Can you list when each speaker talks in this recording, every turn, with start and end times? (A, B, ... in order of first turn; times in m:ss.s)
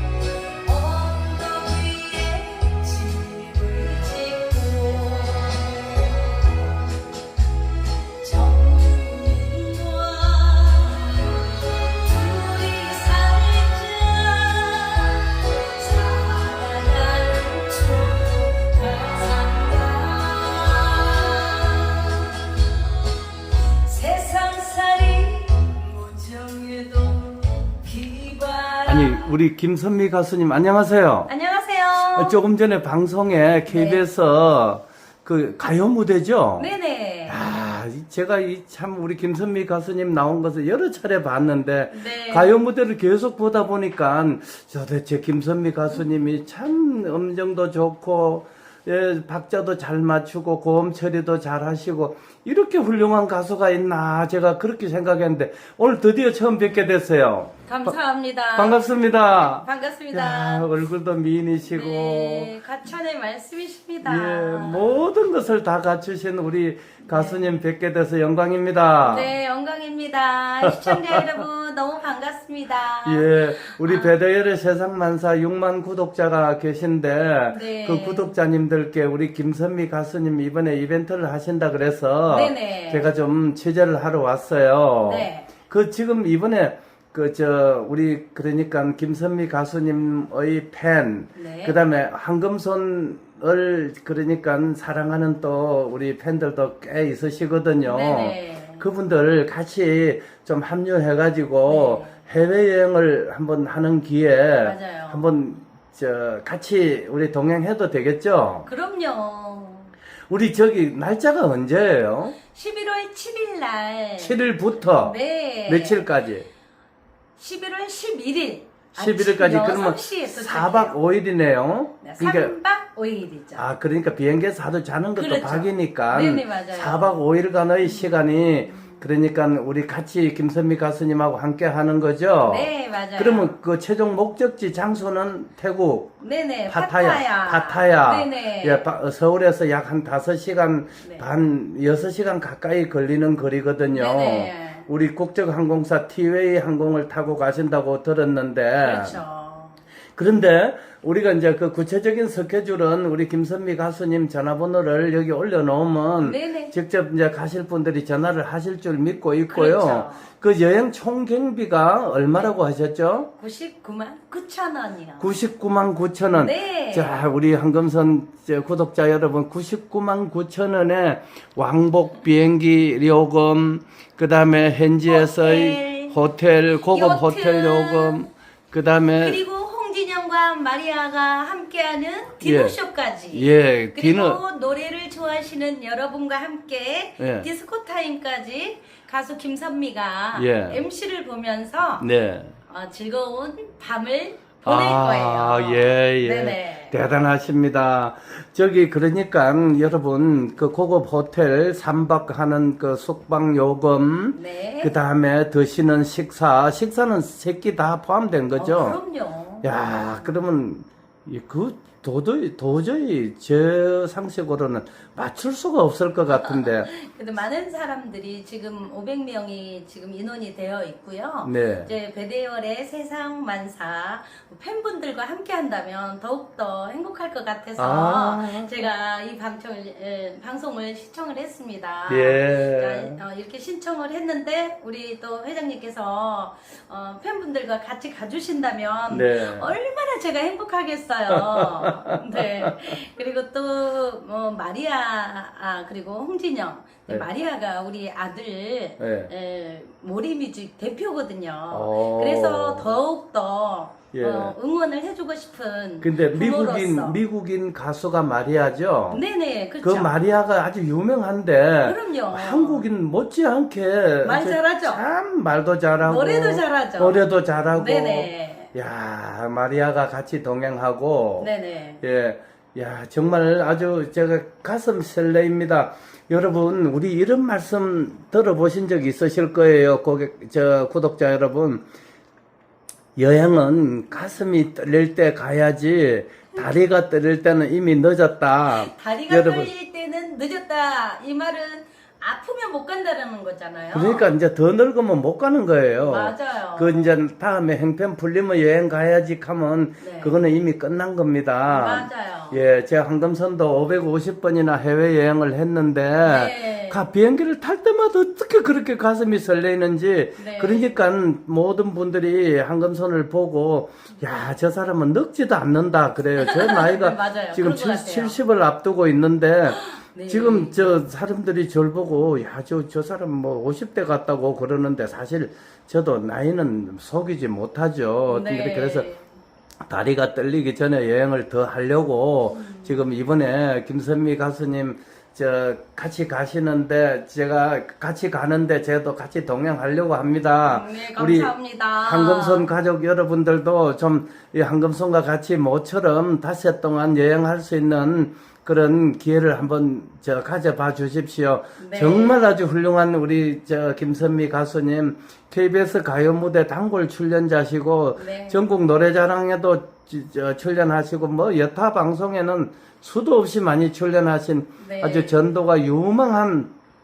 0:00.6-0:06.8 A
0:08.1-0:22.5 A
0:23.8-0:29.3 A
0:28.9-0:31.3 B
0:31.3-0:32.4 A
0:32.1-0:36.7 B
0:33.7-0:34.0 A
0:36.6-0:37.4 A
0:37.3-0:58.0 B
0:41.9-0:42.6 A
0:57.6-1:00.7 A
0:58.5-1:02.5 B
1:01.6-1:04.9 A
1:04.0-1:09.3 B
1:07.0-1:07.6 A
1:09.0-1:14.2 A
1:10.6-1:11.2 B
1:13.0-1:48.7 B
1:17.5-1:18.3 A
1:22.3-1:23.1 A
1:25.0-1:25.5 A
1:31.4-1:31.8 A
1:37.8-1:38.8 A
1:41.7-1:42.2 A
1:44.6-1:45.2 A
1:48.6-1:49.9 A
1:50.3-1:52.4 B
1:52.4-1:54.4 A
1:54.2-1:56.5 B
1:54.9-1:56.0 A
1:57.4-2:01.0 A
1:58.9-2:02.5 B
2:02.0-2:03.6 A
2:03.5-2:16.1 B
2:05.2-2:07.2 A
2:07.8-2:09.0 A
2:12.4-2:13.5 A
2:16.2-2:18.8 A
2:16.7-2:29.2 B
2:23.9-2:24.9 A
2:28.8-2:29.8 A
2:30.2-2:43.3 B
2:36.2-2:36.7 A
2:39.5-2:40.3 A
2:43.3-2:45.4 A
2:45.2-2:59.4 B
2:46.3-2:47.3 A
2:55.1-2:56.2 A
2:56.9-2:58.3 A
2:59.2-3:12.1 A
3:02.4-3:02.8 B
3:03.3-3:04.4 B
3:07.2-3:07.5 B
3:10.3-3:10.8 B
3:12.0-3:12.6 B
3:12.6-3:17.0 A
3:14.6-3:29.0 B
3:24.3-3:24.9 A
3:28.6-3:29.7 A
3:29.6-3:36.9 B
3:36.3-4:17.2 A
3:41.4-3:41.9 B
3:47.8-3:48.7 B
3:52.1-3:53.2 B
3:59.1-3:59.8 B
4:01.3-4:02.8 B
4:09.0-4:09.3 B
4:11.7-4:13.0 B
4:14.1-4:14.5 B
4:16.0-4:19.2 B
4:19.1-4:20.1 A
4:19.8-4:31.5 B
4:21.8-4:22.8 A
4:24.2-4:25.0 A
4:26.0-4:27.2 A
4:27.7-4:28.7 A
4:31.4-4:32.0 A
4:32.0-4:41.8 B
4:43.2-4:49.7 B
4:48.7-4:54.3 A
4:53.9-5:29.1 B
4:56.0-4:57.1 A
5:00.0-5:00.4 A
5:01.6-5:02.6 A
5:06.2-5:07.0 A
5:10.4-5:11.0 A
5:16.3-5:18.4 A
5:19.7-5:20.9 A
5:28.3-5:29.2 A
5:29.8-6:06.7 B
5:32.5-5:33.0 A
5:40.6-5:42.7 A
5:51.8-5:52.4 A
5:58.2-5:58.6 A
6:04.8-6:05.3 A